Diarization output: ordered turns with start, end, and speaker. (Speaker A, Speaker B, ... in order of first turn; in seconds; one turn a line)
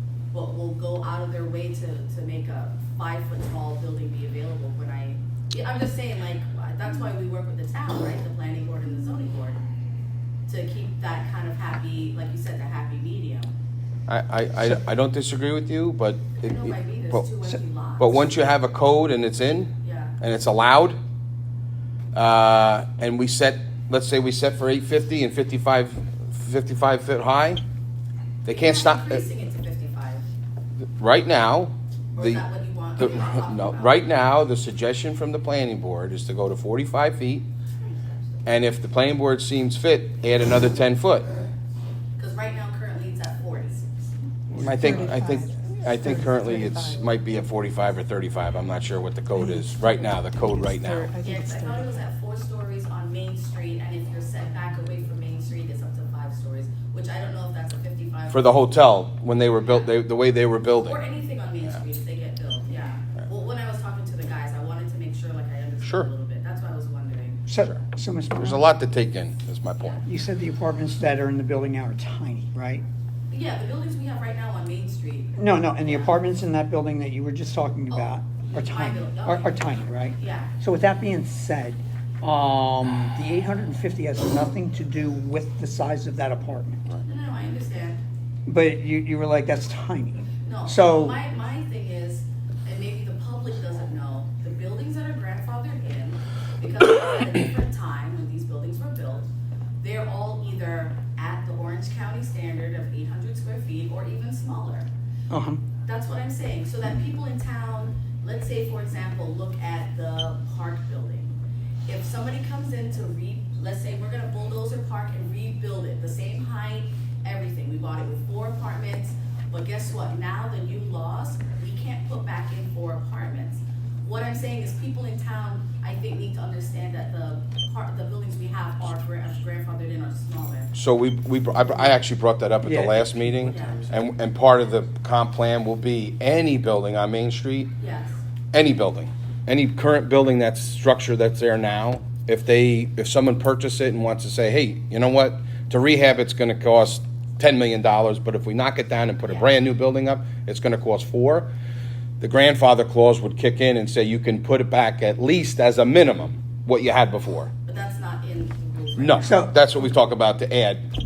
Speaker A: 0.3-9.6
Speaker A: 10.5-13.5
Speaker B: 14.1-17.3
Speaker A: 16.4-18.2
Speaker B: 18.0-21.0
Speaker A: 19.8-20.1
Speaker B: 22.1-27.6
Speaker B: 28.4-29.2
Speaker A: 28.5-30.2
Speaker B: 31.0-32.4
Speaker A: 32.1-34.0
Speaker B: 33.0-37.5
Speaker B: 38.4-41.3
Speaker A: 42.2-43.9
Speaker B: 44.5-51.1
Speaker C: 44.6-44.9
Speaker D: 44.6-47.1
Speaker D: 49.5-52.0
Speaker A: 51.2-58.6
Speaker B: 58.3-61.0
Speaker A: 59.6-59.9
Speaker A: 60.8-67.4
Speaker B: 65.8-66.1
Speaker C: 67.5-68.7
Speaker B: 68.4-70.0
Speaker C: 70.0-72.8
Speaker A: 73.3-76.2
Speaker C: 75.4-86.8
Speaker A: 77.9-80.5
Speaker A: 87.0-88.0
Speaker C: 88.5-91.2
Speaker A: 90.4-99.3
Speaker A: 99.8-104.9
Speaker C: 105.3-105.6
Speaker A: 105.8-111.3
Speaker A: 111.9-130.7
Speaker B: 130.7-137.7
Speaker C: 132.6-133.3
Speaker A: 133.4-133.8
Speaker A: 137.8-138.2
Speaker B: 138.5-151.5
Speaker B: 152.2-157.5
Speaker A: 157.7-159.5
Speaker B: 159.0-160.8
Speaker C: 159.2-159.5